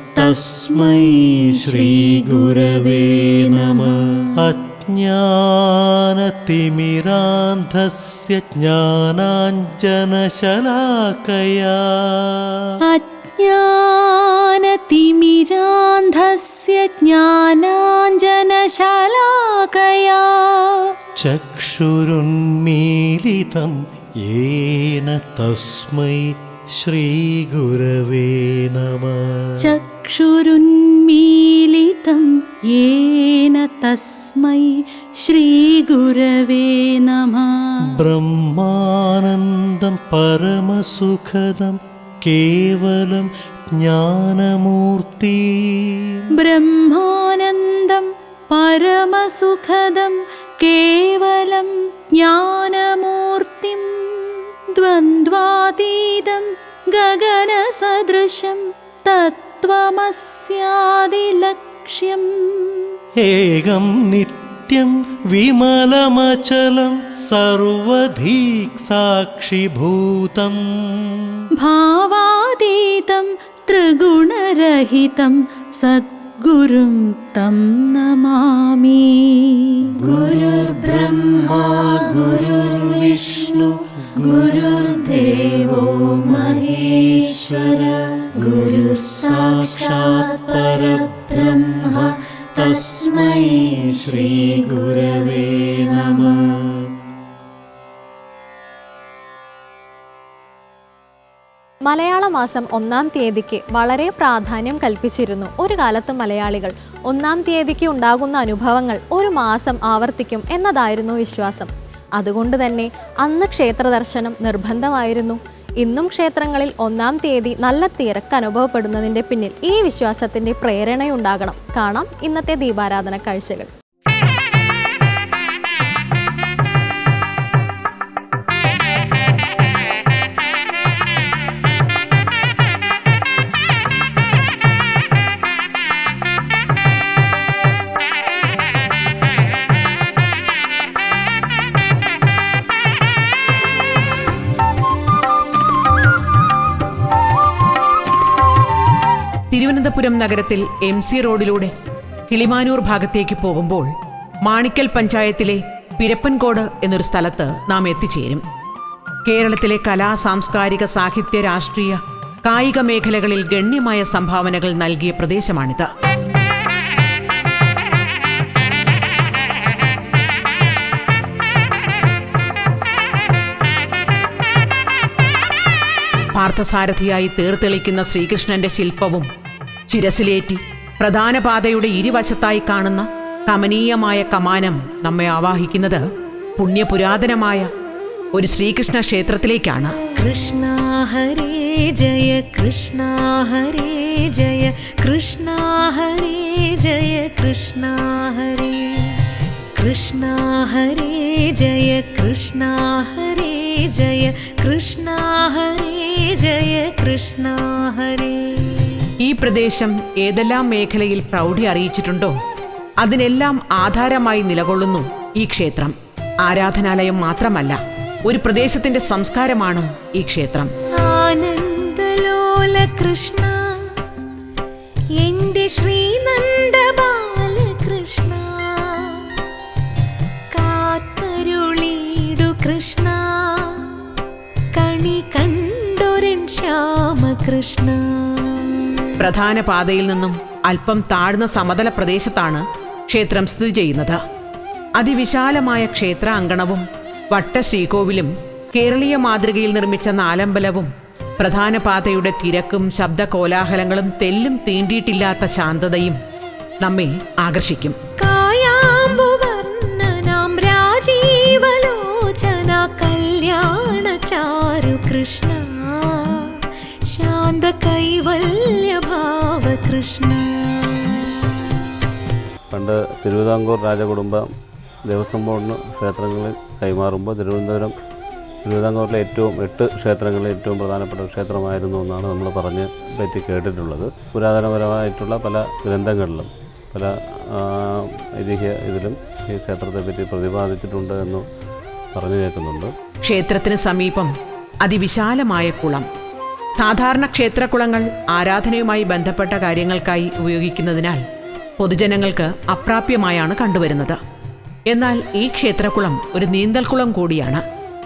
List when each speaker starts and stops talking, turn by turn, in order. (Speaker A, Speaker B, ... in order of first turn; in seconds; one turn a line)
Speaker A: 0.2-4.2
Speaker B: 0.2-3.8
Speaker B: 4.4-12.6
Speaker A: 12.9-20.9
Speaker B: 21.2-29.7
Speaker A: 29.6-37.7
Speaker B: 37.9-46.1
Speaker A: 46.4-62.8
Speaker B: 63.2-71.2
Speaker A: 71.6-80.2
Speaker C: 80.1-83.5
Speaker B: 80.2-82.7
Speaker C: 84.2-86.8
Speaker B: 84.4-84.8
Speaker A: 85.1-85.8
Speaker A: 86.3-87.8
Speaker C: 88.5-90.3
Speaker C: 91.0-91.9
Speaker C: 92.8-93.6
Speaker B: 94.1-94.9
Speaker C: 94.7-95.5
Speaker D: 101.8-123.7
Speaker E: 149.5-151.7
Speaker E: 152.3-153.9
Speaker E: 154.4-158.4
Speaker E: 159.2-165.9
Speaker E: 176.3-179.3
Speaker E: 179.9-186.0
Speaker E: 186.6-187.7
Speaker E: 188.3-190.1
Speaker F: 190.2-199.2
Speaker F: 199.8-209.0
Speaker E: 209.2-212.3
Speaker E: 213.0-220.7
Speaker F: 221.0-224.0
Speaker F: 225.2-229.3
Speaker F: 230.5-234.0
Speaker F: 234.7-238.8
Speaker E: 239.2-244.2
Speaker E: 245.0-256.2
Speaker E: 256.8-258.2
Speaker F: 258.2-266.6
Speaker F: 267.1-271.1
Speaker G: 272.7-274.5
Speaker G: 275.1-277.9
Speaker G: 278.6-291.4
Speaker G: 292.1-292.9
Speaker E: 293.2-294.3
Speaker E: 294.8-296.1
Speaker E: 296.8-301.2
Speaker E: 301.8-304.2
Speaker E: 304.9-307.6